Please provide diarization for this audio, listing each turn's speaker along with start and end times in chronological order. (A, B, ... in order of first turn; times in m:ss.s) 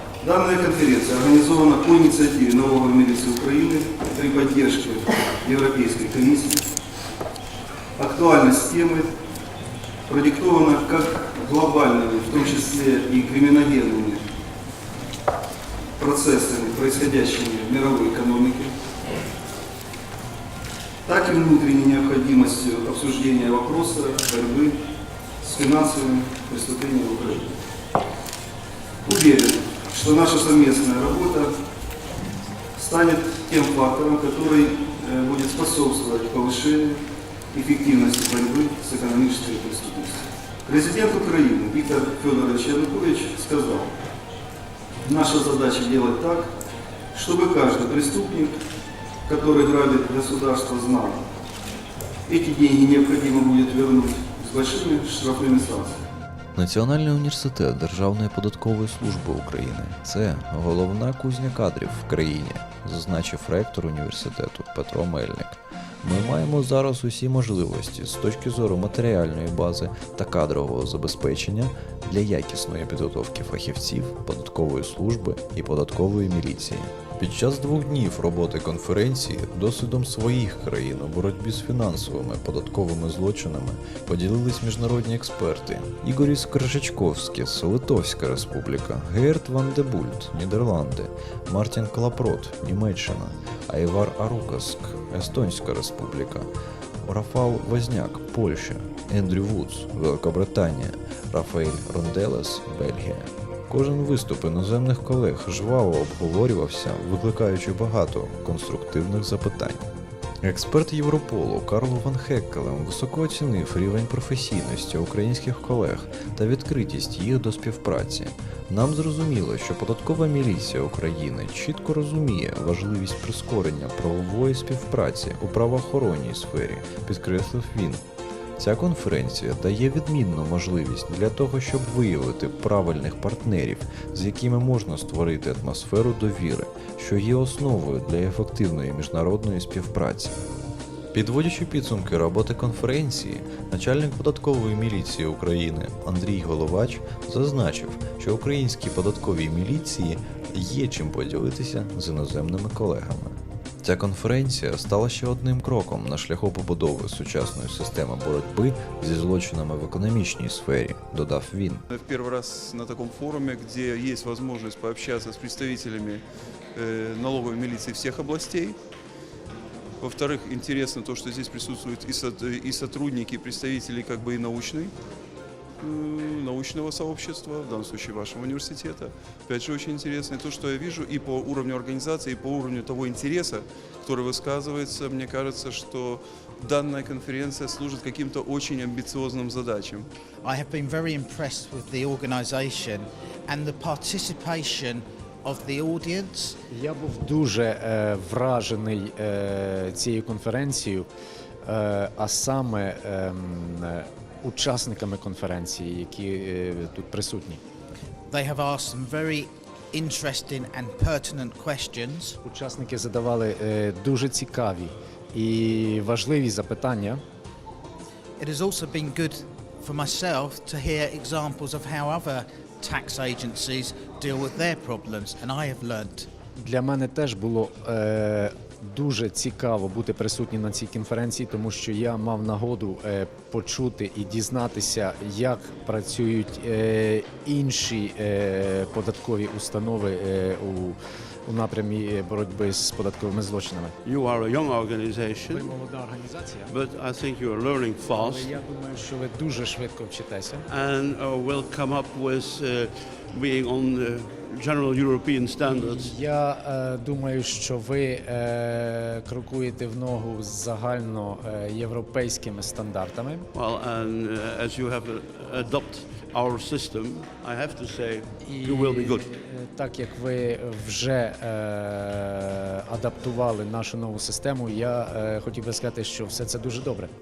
0:00.2-0:06.6 A
0:08.0-0:09.1 A
0:10.1-0:14.2 A
0:16.0-0:18.7 A
0:21.1-0:24.8 A
0:25.4-0:27.6 A
0:29.0-0:31.5 A
0:32.8-0:37.0 A
0:37.5-0:43.9 A
0:45.0-0:46.5 A
0:47.1-0:48.6 A
0:49.3-0:51.2 A
0:52.3-0:56.0 A
0:56.6-1:36.5 B
1:37.0-1:49.9 B
1:50.4-2:08.0 B
2:08.6-2:20.4 B
2:21.1-2:41.8 B
2:41.9-2:46.2 C
2:46.8-2:48.8 C
2:50.0-2:54.9 C
2:55.8-3:10.1 C
3:10.4-3:16.6 D
3:16.7-3:21.1 E
3:21.6-3:27.6 E
3:28.3-3:32.4 D
3:32.4-3:37.2 E
3:38.4-3:46.3 D
3:46.6-4:04.0 E
4:04.0-4:05.7 F
4:05.5-4:06.7 E
4:06.7-4:08.5 F
4:08.1-4:10.7 E
4:10.7-4:16.2 F
4:15.6-4:23.5 E
4:23.5-4:29.3 F
4:28.4-4:37.1 E